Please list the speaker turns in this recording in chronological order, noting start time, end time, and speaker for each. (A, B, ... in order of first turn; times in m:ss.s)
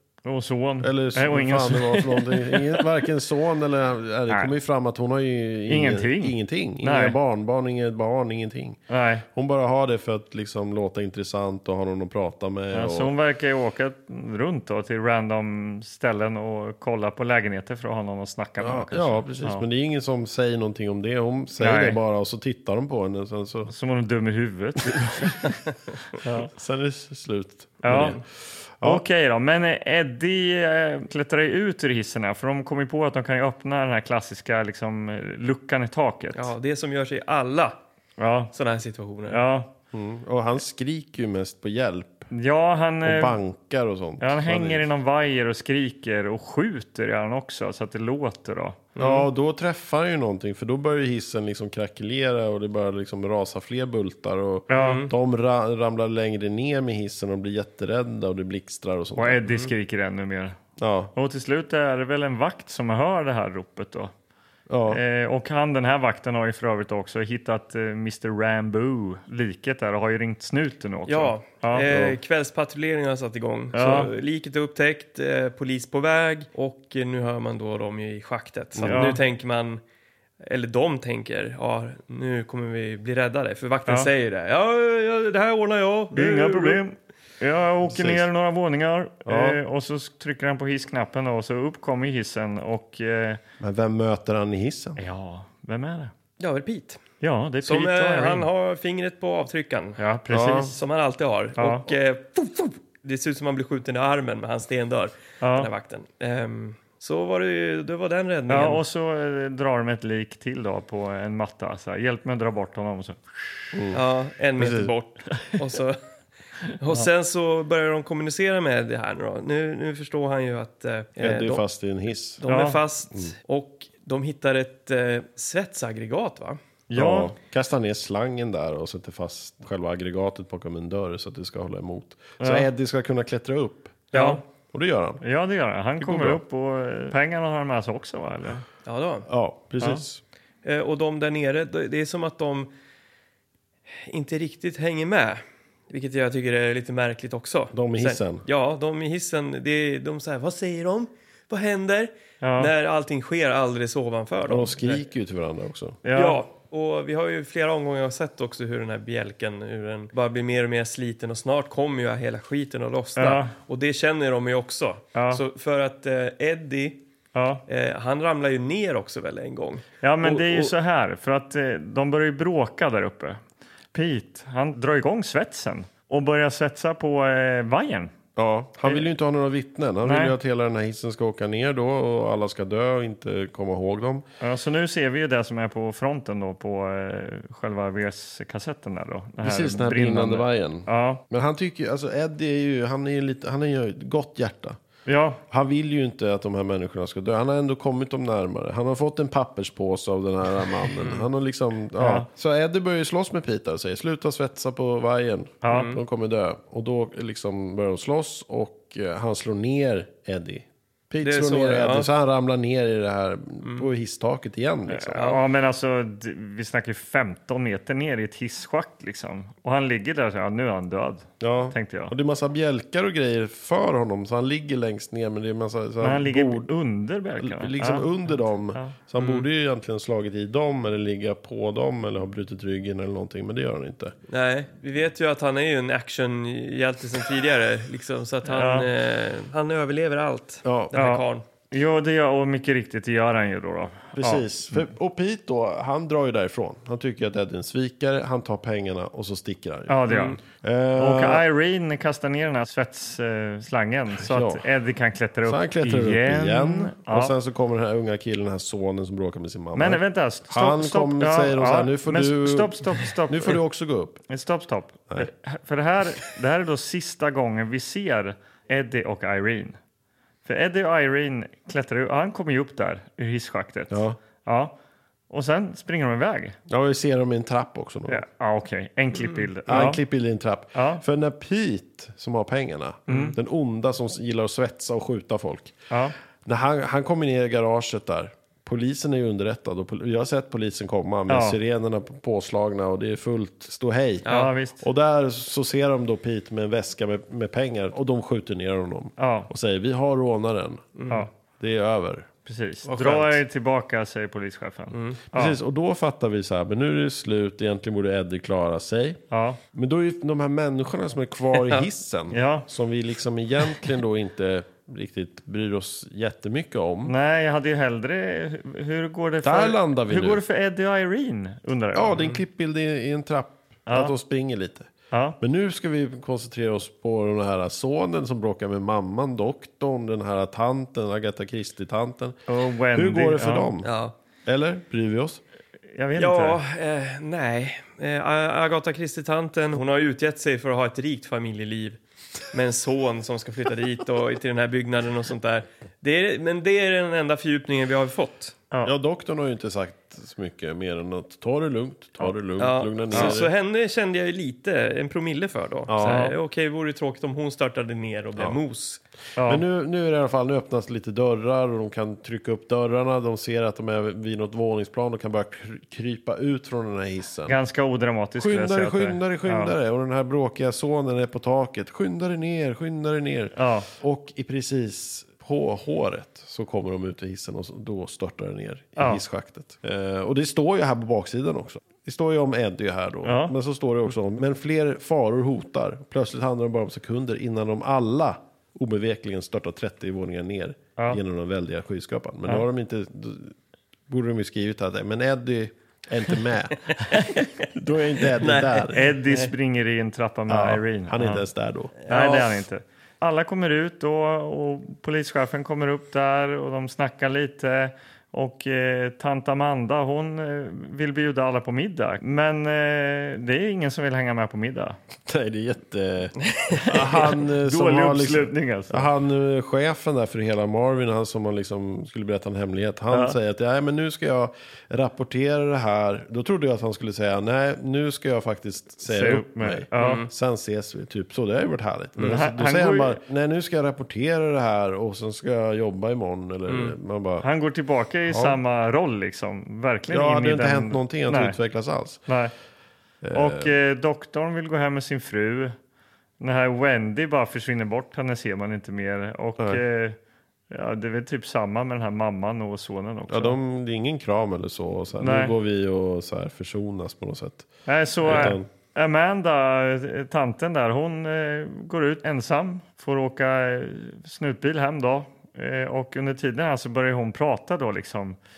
0:00.2-0:02.9 A
0:00.8-0:08.8 B
0:05.7-0:07.2 A
0:08.9-0:09.2 A
0:09.4-0:13.1 B
0:12.7-0:19.6 A
0:18.6-0:23.7 B
0:21.6-0:22.0 A
0:23.7-0:25.6 A
0:26.1-0:26.5 A
0:26.4-0:28.2 B
0:27.8-0:28.2 A
0:28.8-0:36.5 A
0:36.4-0:37.8 C
0:38.2-0:38.5 A
0:38.5-0:39.4 C
0:39.3-0:39.7 A
0:39.9-0:42.3 B
0:42.3-0:43.4 A
0:43.0-0:44.9 B
0:44.2-0:48.9 A
0:49.0-0:49.3 C
0:49.0-0:59.4 B
0:54.7-0:55.0 A
0:54.8-0:55.1 C
0:59.2-1:00.6 A
1:00.8-1:01.1 B
1:01.2-1:04.1 A
1:04.7-1:05.0 B
1:04.9-1:11.9 A
1:11.1-1:19.8 C
1:11.8-1:12.2 B
1:13.8-1:14.1 A
1:18.8-1:19.1 B
1:18.8-1:19.2 A
1:20.4-1:26.8 C
1:26.1-1:33.4 A
1:27.8-1:28.3 B
1:29.3-1:29.6 B
1:33.6-1:35.0 B
1:35.0-1:36.1 A
1:36.4-1:37.0 C
1:37.2-1:38.5 A
1:37.6-1:40.0 C
1:40.0-1:40.8 A
1:40.3-1:40.7 B
1:40.7-1:48.8 C
1:41.6-1:41.9 A
1:45.4-1:45.7 A
1:48.5-1:53.8 A
1:53.7-1:54.0 B
1:53.9-1:56.0 C
1:54.6-1:54.9 B
1:56.8-2:01.6 C
2:01.2-2:02.4 B
2:02.4-2:06.6 C
2:02.5-2:02.8 A
2:06.9-2:07.3 A
2:06.9-2:14.1 B
2:12.4-2:12.7 A
2:14.1-2:14.4 C
2:14.1-2:14.4 A
2:14.7-2:15.2 B
2:15.2-2:18.6 A
2:16.0-2:16.4 B
2:18.9-2:19.3 C
2:19.3-2:20.2 B
2:20.6-2:22.7 C
2:23.9-2:35.0 C
2:27.7-2:28.4 B
2:32.4-2:32.7 A
2:34.5-2:36.0 B
2:36.0-2:36.4 A
2:36.1-2:47.0 C
2:43.2-2:43.5 A
2:45.2-2:45.4 A
2:47.4-2:47.6 A
2:47.7-2:50.7 C
2:50.0-2:53.4 A
2:53.9-2:58.1 A
2:58.4-3:04.2 B
3:00.0-3:00.4 A
3:04.4-3:11.2 A
3:09.4-3:14.8 B
3:15.1-3:15.4 A
3:15.5-3:35.3 B
3:21.0-3:21.2 C
3:22.0-3:22.3 A
3:25.6-3:25.9 A
3:25.7-3:26.0 C
3:31.2-3:32.1 C
3:33.6-3:33.9 C
3:34.9-3:42.1 A
3:35.2-3:35.4 C
3:41.4-3:46.7 B
3:46.0-3:48.1 A
3:47.4-3:54.2 B
3:48.7-3:49.0 A
3:49.2-3:49.4 C
3:54.3-4:01.4 C
3:58.5-3:58.9 A
4:00.6-4:00.9 B
4:01.0-4:04.5 A
4:04.2-4:11.4 B
4:09.9-4:10.4 A
4:10.1-4:10.4 C
4:11.0-4:17.3 A
4:14.2-4:14.6 B
4:15.4-4:24.2 B
4:19.8-4:23.6 A
4:24.3-4:29.8 A
4:30.4-4:34.8 A
4:33.9-4:34.2 B
4:35.3-4:36.6 A
4:36.7-4:38.2 B
4:38.1-4:40.0 A
4:39.2-4:39.4 C
4:39.7-4:45.8 B
4:40.8-4:41.0 A
4:43.1-4:43.4 A
4:45.9-4:46.2 A
4:46.4-4:54.3 B
4:51.3-4:51.6 A
4:54.2-4:54.5 C
4:54.3-4:54.8 A
4:54.8-5:00.9 B
4:59.2-4:59.5 A
5:01.0-5:01.3 C
5:01.6-5:02.3 B
5:02.5-5:05.6 A
5:02.8-5:03.4 B
5:04.9-5:05.2 C
5:05.3-5:09.2 B
5:09.3-5:09.6 A
5:09.7-5:17.1 B
5:11.6-5:11.9 C
5:12.3-5:12.7 A
5:17.1-5:22.3 A
5:19.4-5:20.4 B
5:21.9-5:33.9 B
5:23.9-5:24.1 A
5:25.1-5:25.4 A
5:32.5-5:33.7 A
5:33.8-5:34.2 C
5:34.5-5:35.4 B
5:35.9-5:36.6 A
5:36.2-5:42.0 C
5:42.5-5:48.6 C
5:48.8-5:53.5 B
5:52.6-5:59.0 C
5:55.9-5:56.2 B
5:56.0-5:56.4 A
5:59.4-5:59.6 A
5:59.4-6:07.6 B
6:07.5-6:09.8 A
6:08.4-6:33.6 B
6:13.6-6:13.9 A
6:19.0-6:19.2 A
6:23.2-6:23.6 A
6:34.1-6:37.0 B
6:36.9-6:37.7 C
6:37.7-6:39.0 B
6:38.4-6:39.5 C
6:38.9-6:41.5 A
6:40.5-6:41.9 B
6:42.0-6:42.6 C
6:42.1-6:55.0 A
6:55.3-7:17.5 B
6:56.4-6:57.0 C
6:56.9-6:59.1 A
7:03.1-7:03.4 A
7:09.1-7:10.2 A
7:10.0-7:10.3 C
7:12.2-7:13.2 A
7:16.7-7:17.0 C
7:17.4-7:21.6 A
7:18.3-7:18.6 B
7:20.1-7:22.3 B
7:22.3-7:22.5 A
7:23.2-7:23.7 B
7:23.3-7:25.8 A
7:26.4-7:30.2 A
7:30.7-7:33.6 A
7:33.3-7:37.7 B
7:35.2-7:35.6 A
7:37.9-7:48.4 A
7:38.2-7:38.7 B